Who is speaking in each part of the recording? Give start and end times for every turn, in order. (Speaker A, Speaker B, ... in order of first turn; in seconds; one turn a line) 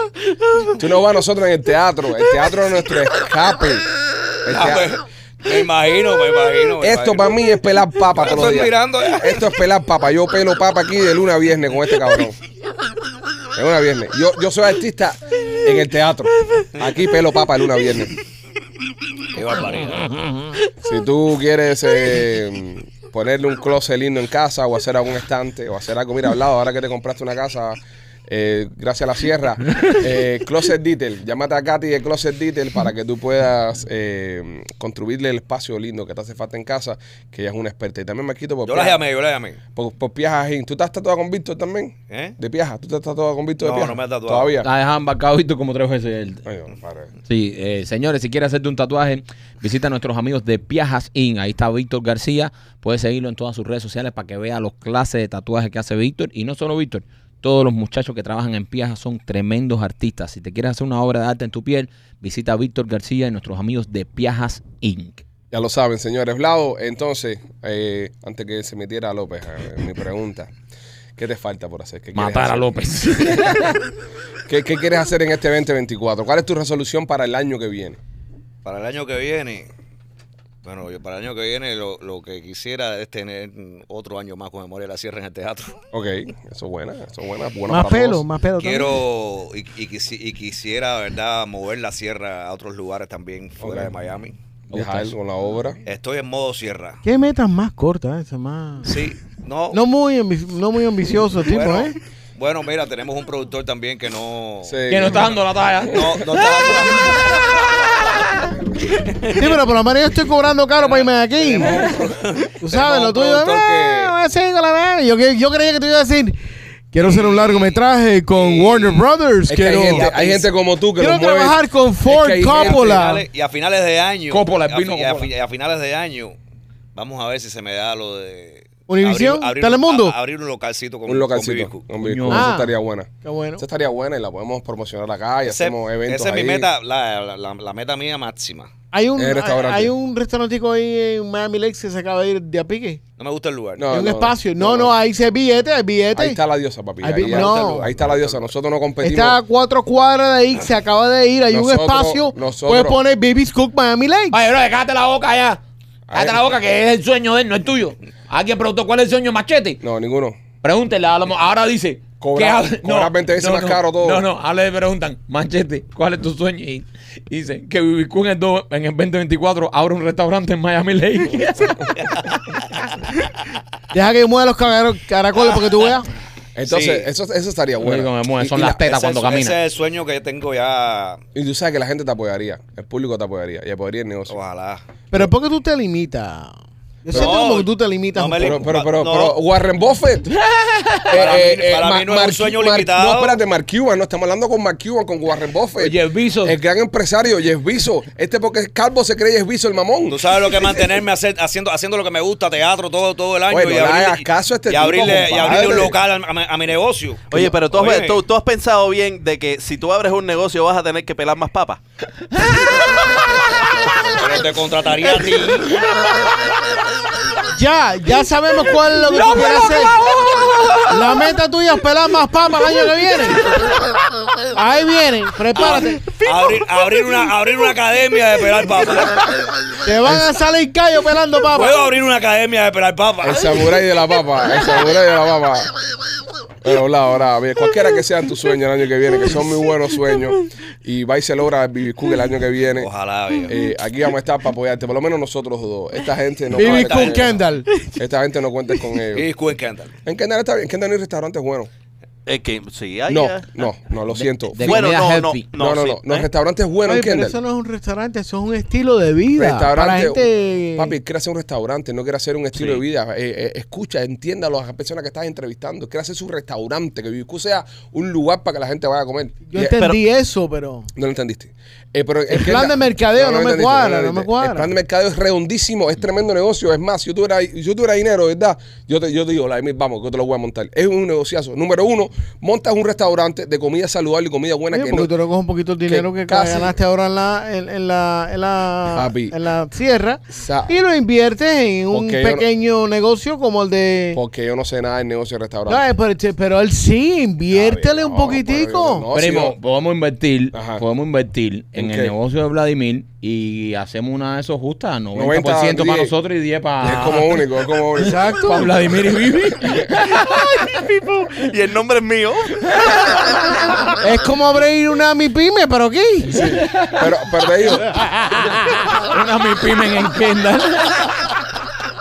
Speaker A: 0.8-3.9
Speaker A: 4.4-4.9
Speaker B: 4.5-7.4
Speaker A: 6.8-12.3
Speaker B: 8.2-9.4
Speaker A: 13.5-18.1
Speaker B: 19.3-20.1
Speaker A: 20.8-39.0
Speaker B: 38.6-39.6
Speaker A: 39.7-44.7
Speaker B: 42.1-42.4
Speaker B: 43.6-44.5
Speaker C: 44.6-46.4
Speaker A: 46.4-47.1
Speaker C: 47.2-65.2
Speaker A: 65.5-70.5
Speaker A: 71.2-72.7
Speaker C: 72.1-73.8
Speaker A: 74.5-78.0
Speaker B: 78.6-79.7
Speaker B: 80.6-85.8
Speaker A: 85.9-88.2
Speaker D: 87.7-89.0
Speaker B: 88.6-94.3
Speaker A: 93.6-93.9
Speaker C: 94.7-95.1
Speaker A: 94.7-95.8
Speaker B: 95.8-97.0
Speaker D: 97.0-98.9
Speaker B: 98.8-99.8
Speaker D: 99.7-101.9
Speaker B: 101.3-105.1
Speaker A: 104.6-105.4
Speaker C: 104.9-108.5
Speaker B: 105.9-107.6
Speaker B: 109.0-109.6
Speaker D: 109.3-111.9
Speaker B: 110.8-114.1
Speaker D: 112.6-116.4
Speaker D: 116.9-120.2
Speaker B: 117.0-117.8
Speaker B: 118.3-119.1
Speaker A: 119.5-123.0
Speaker B: 119.8-120.5
Speaker D: 121.0-123.2
Speaker B: 122.5-126.4
Speaker C: 124.3-125.3
Speaker B: 126.9-131.9
Speaker D: 128.9-130.1
Speaker A: 131.1-136.7
Speaker C: 132.0-132.6
Speaker D: 132.3-133.6
Speaker B: 135.4-138.7
Speaker D: 138.9-143.0
Speaker A: 139.2-139.9
Speaker B: 143.2-143.8
Speaker A: 143.8-144.9
Speaker D: 143.9-146.4
Speaker A: 146.1-149.4
Speaker D: 147.0-147.9
Speaker B: 147.2-148.5
Speaker D: 149.0-154.4
Speaker A: 151.5-153.0
Speaker C: 154.3-155.6
Speaker A: 156.1-156.4
Speaker C: 156.1-159.8
Speaker A: 159.8-160.4
Speaker C: 160.6-172.6
Speaker A: 162.2-164.2
Speaker D: 173.9-176.1
Speaker A: 176.6-178.8
Speaker B: 176.7-177.1
Speaker C: 177.8-179.6
Speaker B: 178.6-181.2
Speaker A: 181.3-184.3
Speaker B: 184.3-184.8
Speaker D: 185.1-188.6
Speaker B: 187.1-189.3
Speaker A: 187.1-187.4
Speaker A: 188.4-190.3
Speaker C: 190.3-191.3
Speaker A: 191.1-200.8
Speaker B: 191.1-193.4
Speaker C: 195.8-196.6
Speaker B: 200.1-208.2
Speaker A: 203.5-205.9
Speaker E: 207.3-211.8
Speaker B: 214.1-215.7
Speaker D: 217.4-220.0
Speaker D: 220.9-223.5
Speaker D: 224.5-226.1
Speaker B: 225.5-229.4
Speaker D: 229.8-231.8
Speaker B: 231.5-233.7
Speaker A: 233.2-235.7
Speaker A: 236.6-242.9
Speaker B: 242.8-243.6
Speaker A: 243.4-247.4
Speaker D: 246.5-247.9
Speaker B: 246.6-247.2
Speaker A: 247.9-249.3
Speaker B: 249.1-249.9
Speaker A: 250.0-251.7
Speaker E: 252.2-253.7
Speaker A: 253.1-254.9
Speaker C: 254.1-255.4
Speaker E: 254.6-256.3
Speaker A: 255.5-257.4
Speaker D: 256.9-260.9
Speaker A: 259.4-269.8
Speaker E: 262.5-262.8
Speaker D: 269.5-270.9
Speaker E: 269.7-270.0
Speaker A: 270.9-285.1
Speaker D: 272.3-274.7
Speaker D: 284.7-294.2
Speaker A: 285.9-286.8
Speaker A: 288.9-289.3
Speaker A: 290.3-290.8
Speaker A: 291.9-292.4
Speaker A: 294.1-295.8
Speaker D: 295.7-299.1
Speaker A: 297.5-299.6
Speaker C: 299.1-307.4
Speaker A: 300.5-300.8
Speaker A: 301.7-302.1
Speaker A: 305.1-306.1
Speaker A: 306.8-308.6
Speaker D: 308.0-308.8
Speaker C: 308.4-310.5
Speaker A: 309.6-309.9
Speaker E: 310.3-312.7
Speaker D: 314.0-316.4
Speaker A: 316.3-318.0
Speaker C: 316.4-317.1
Speaker C: 317.8-318.3
Speaker C: 318.9-321.3